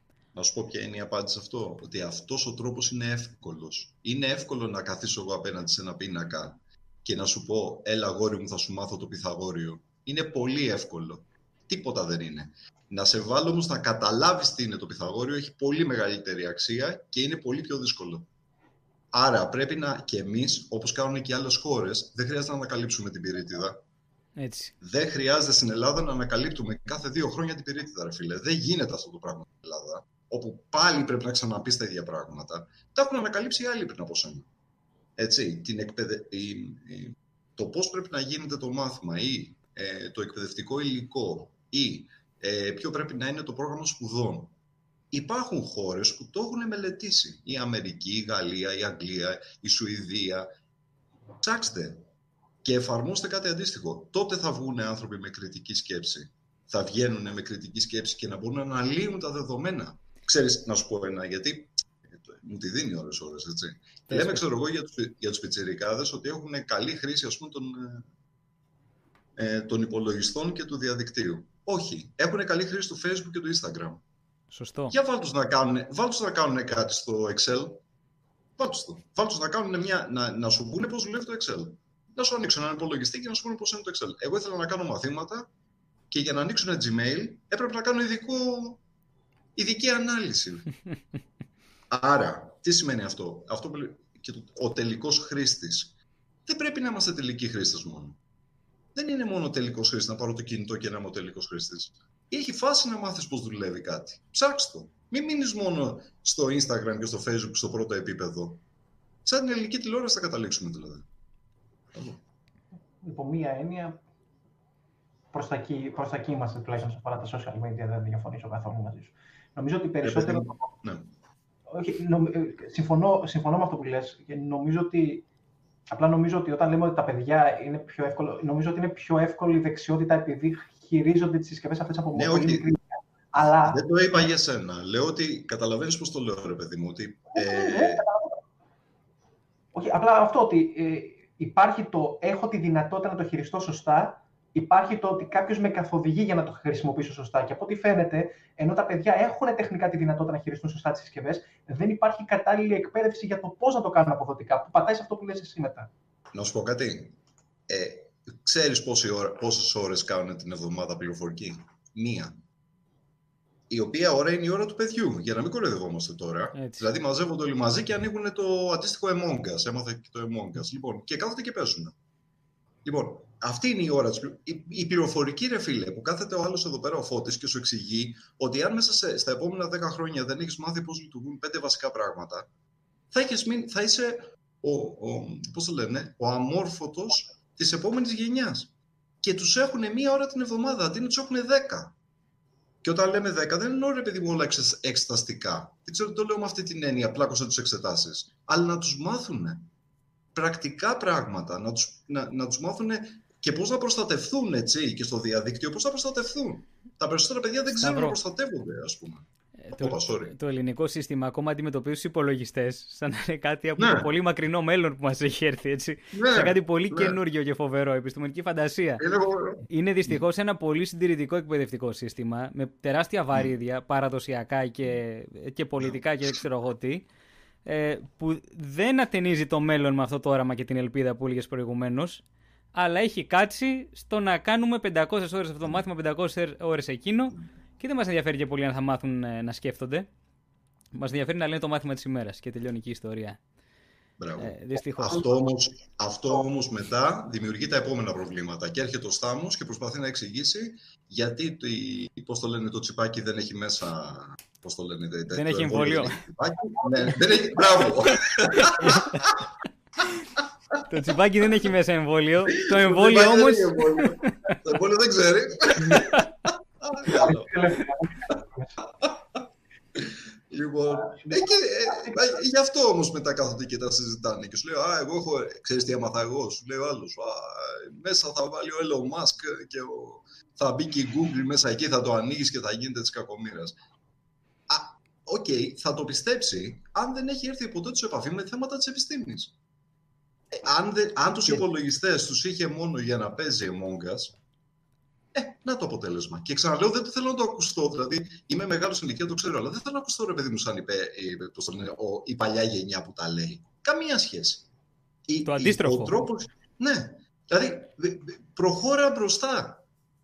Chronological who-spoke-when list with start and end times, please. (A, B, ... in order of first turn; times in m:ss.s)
0:00.4-0:18.3 A
0:19.1-0:23.8 A
0:24.4-0:24.7 B
0:24.8-0:34.4 A
0:35.2-0:44.5 A
0:45.1-0:50.5 A
0:51.4-0:52.1 A
0:52.6-1:08.1 A
1:04.1-1:04.4 B
1:09.4-1:14.0 A
1:14.5-1:15.0 B
1:14.9-1:17.8 A
1:18.6-1:25.5 A
1:26.1-1:28.8 A
1:29.6-1:30.8 A
1:31.9-1:35.9 A
1:36.5-1:38.2 A
1:39.0-1:48.6 A
1:49.2-1:51.0 A
1:51.9-1:52.2 A
1:53.0-1:54.0 C
1:55.3-2:00.6 C
2:00.0-2:01.1 A
2:01.7-2:05.2 C
2:05.9-2:13.8 C
2:12.1-2:12.7 A
2:13.4-2:18.0 A
2:17.4-2:18.4 C
2:19.7-2:35.9 C
2:36.3-2:37.2 A
2:37.7-2:42.4 A
2:43.7-2:51.9 A
2:46.6-2:46.9 B
2:52.8-3:02.5 A
3:03.1-3:08.7 A
3:09.2-3:11.9 A
3:12.8-3:19.7 A
3:20.4-3:29.2 A
3:27.8-3:28.2 B
3:29.6-3:39.0 B
3:29.8-3:30.4 A
3:33.8-3:34.1 A
3:36.1-3:37.2 A
3:39.0-3:39.7 A
3:39.7-3:47.1 B
3:47.6-4:00.1 B
4:01.0-4:03.4 B
4:04.2-4:19.4 A
4:04.4-4:05.3 B
4:15.3-4:16.2 B
4:18.6-4:19.3 B
4:20.9-4:24.6 B
4:22.5-4:28.4 A
4:25.9-4:26.2 B
4:27.0-4:28.7 C
4:28.9-4:29.4 A
4:30.0-4:43.8 A
4:31.1-4:32.2 C
4:44.7-4:49.5 A
4:50.5-4:54.4 A
4:55.3-5:04.7 A
5:05.3-5:09.8 A
5:05.5-5:06.2 B